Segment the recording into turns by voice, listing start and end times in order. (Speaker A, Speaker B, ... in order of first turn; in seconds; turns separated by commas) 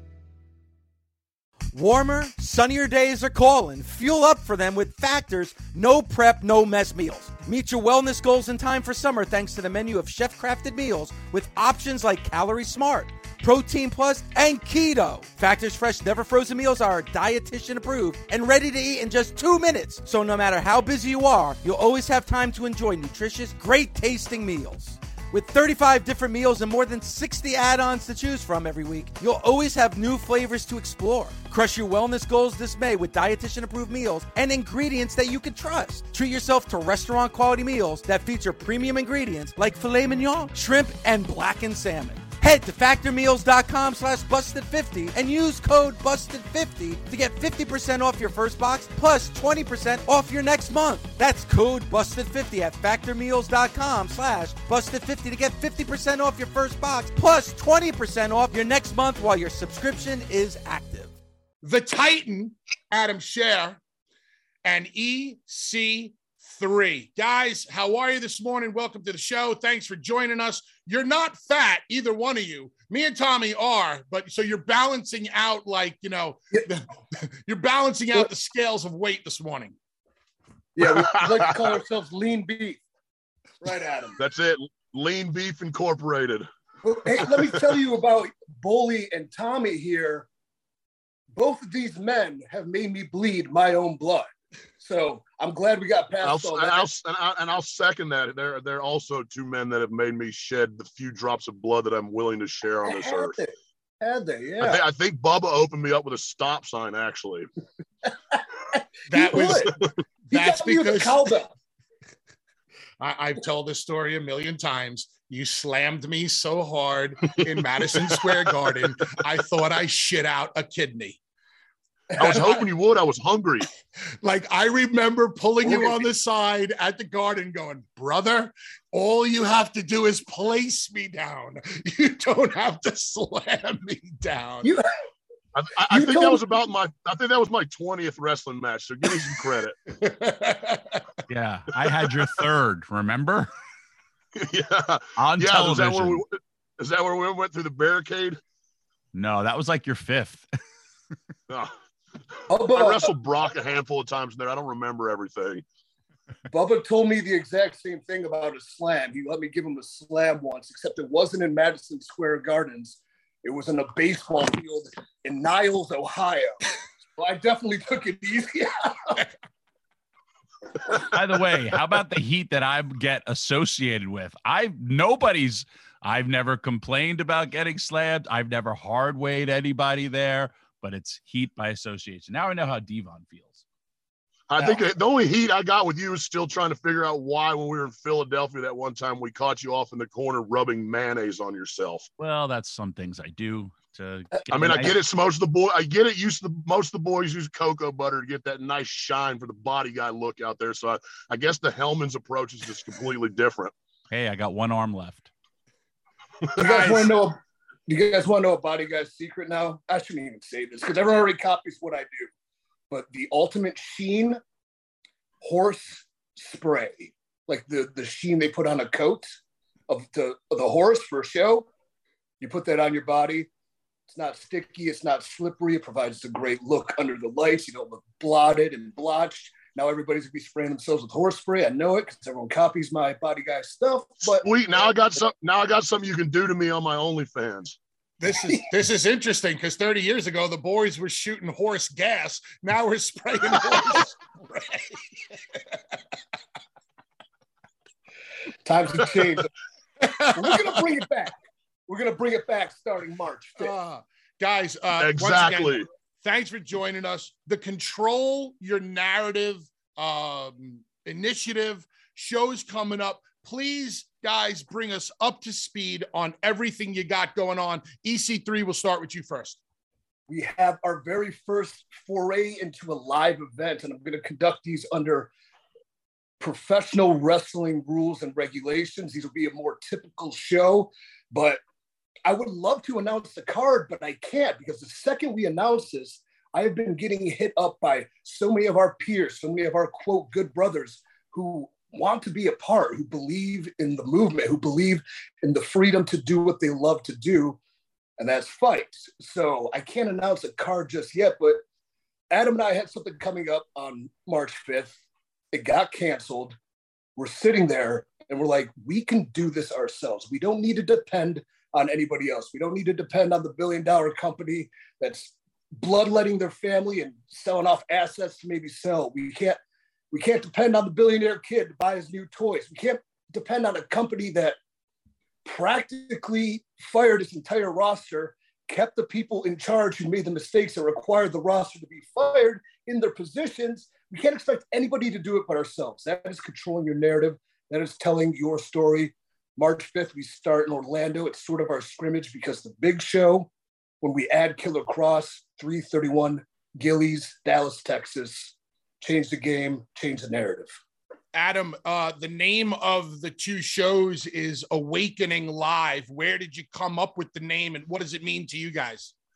Speaker A: 1.7-61.1, Speaker B: 61.6-63.8, Speaker B: 64.6-79.8, Speaker C: 80.8-82.8, Speaker D: 80.9-81.7, Speaker C: 83.6-84.1, Speaker D: 84.2-86.5, Speaker C: 86.8-90.3, Speaker D: 87.2-87.5, Speaker C: 91.3-96.9, Speaker D: 96.2-103.3, Speaker C: 102.8-104.8, Speaker D: 104.6-107.5, Speaker C: 108.3-109.7, Speaker B: 109.1-109.7, Speaker B: 110.3-111.3, Speaker C: 110.3-111.5, Speaker B: 113.0-121.2, Speaker C: 122.1-122.6, Speaker D: 122.2-123.7, Speaker B: 124.2-134.7, Speaker C: 125.6-126.0, Speaker C: 134.6-134.9, Speaker D: 135.6-139.8, Speaker C: 135.9-136.4, Speaker B: 139.9-141.0, Speaker E: 141.3-143.5, Speaker D: 144.4-148.4, Speaker E: 145.2-146.2, Speaker E: 149.1-150.5, Speaker C: 152.5-153.1, Speaker D: 152.7-155.6, Speaker C: 156.5-166.6, Speaker C: 167.2-169.2, Speaker E: 171.1-183.6, Speaker D: 184.5-192.1, Speaker C: 184.6-184.8, Speaker E: 192.2-195.0, Speaker D: 194.5-203.7, Speaker C: 194.6-194.9, Speaker E: 204.1-205.3, Speaker C: 206.6-212.3, Speaker B: 206.6-207.1, Speaker C: 212.9-214.4, Speaker C: 215.4-221.7, Speaker C: 222.4-223.5, Speaker C: 224.1-234.9, Speaker D: 234.4-237.8, Speaker B: 238.2-245.1, Speaker C: 248.6-249.5, Speaker B: 250.0-250.8, Speaker C: 250.3-251.3, Speaker C: 251.9-253.7, Speaker B: 253.6-269.6, Speaker D: 254.9-255.9, Speaker C: 270.3-275.3, Speaker C: 276.4-281.6, Speaker C: 282.2-297.6, Speaker C: 298.2-301.6, Speaker C: 302.3-305.0, Speaker C: 305.5-306.6, Speaker C: 307.2-319.6, Speaker C: 320.1-324.6, Speaker C: 325.4-343.5, Speaker C: 344.0-350.8, Speaker B: 351.3-359.1